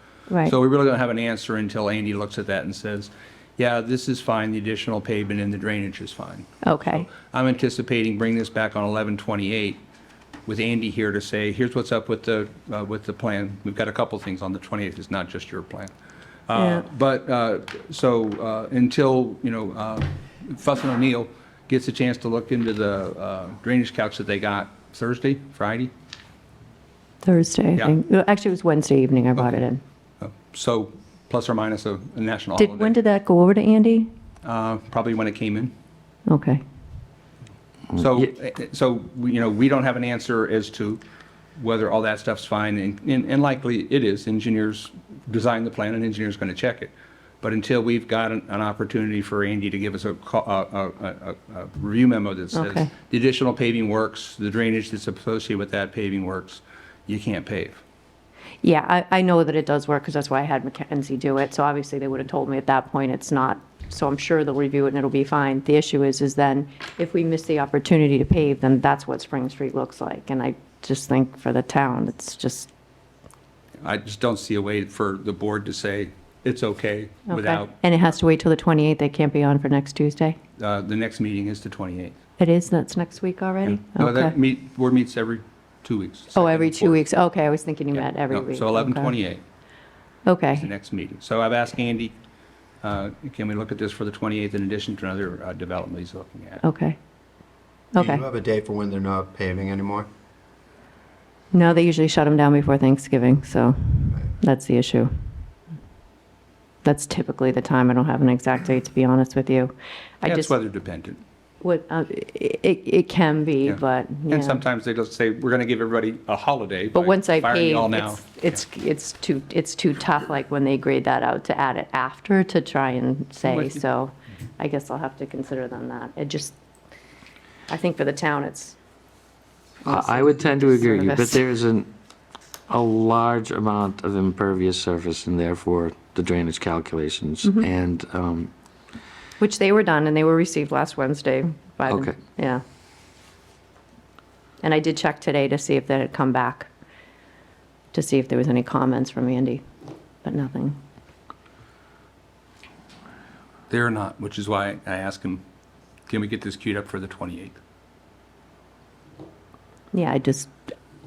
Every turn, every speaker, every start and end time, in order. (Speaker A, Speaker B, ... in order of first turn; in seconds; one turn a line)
Speaker A: 0.5-9.8
Speaker B: 6.7-7.1
Speaker A: 10.5-15.9
Speaker A: 16.5-25.9
Speaker B: 16.6-16.9
Speaker B: 27.2-29.8
Speaker A: 30.2-33.0
Speaker B: 32.6-34.1
Speaker A: 34.4-35.7
Speaker B: 36.3-36.6
Speaker A: 37.9-41.0
Speaker A: 41.6-57.8
Speaker B: 52.5-52.9
Speaker B: 58.6-72.7
Speaker A: 73.8-77.8
Speaker B: 77.3-80.4
Speaker A: 80.6-82.2
Speaker B: 82.4-84.3
Speaker A: 83.7-87.0
Speaker B: 86.3-89.1
Speaker A: 88.0-89.4
Speaker B: 90.3-90.7
Speaker A: 90.5-92.1
Speaker A: 92.8-96.6
Speaker B: 96.6-97.0
Speaker B: 97.9-98.2
Speaker C: 98.0-100.1
Speaker B: 101.5-105.1
Speaker B: 106.8-110.5
Speaker A: 110.2-111.2
Speaker B: 111.6-114.6
Speaker A: 113.7-118.2
Speaker B: 117.0-126.5
Speaker A: 123.4-123.8
Speaker B: 127.7-128.8
Speaker B: 129.8-131.4
Speaker D: 129.9-131.9
Speaker D: 132.7-138.5
Speaker B: 139.4-142.6
Speaker D: 141.9-142.2
Speaker B: 144.6-146.7
Speaker B: 147.9-149.6
Speaker B: 150.2-150.8
Speaker A: 153.7-155.4
Speaker A: 156.1-157.6
Speaker B: 159.9-160.5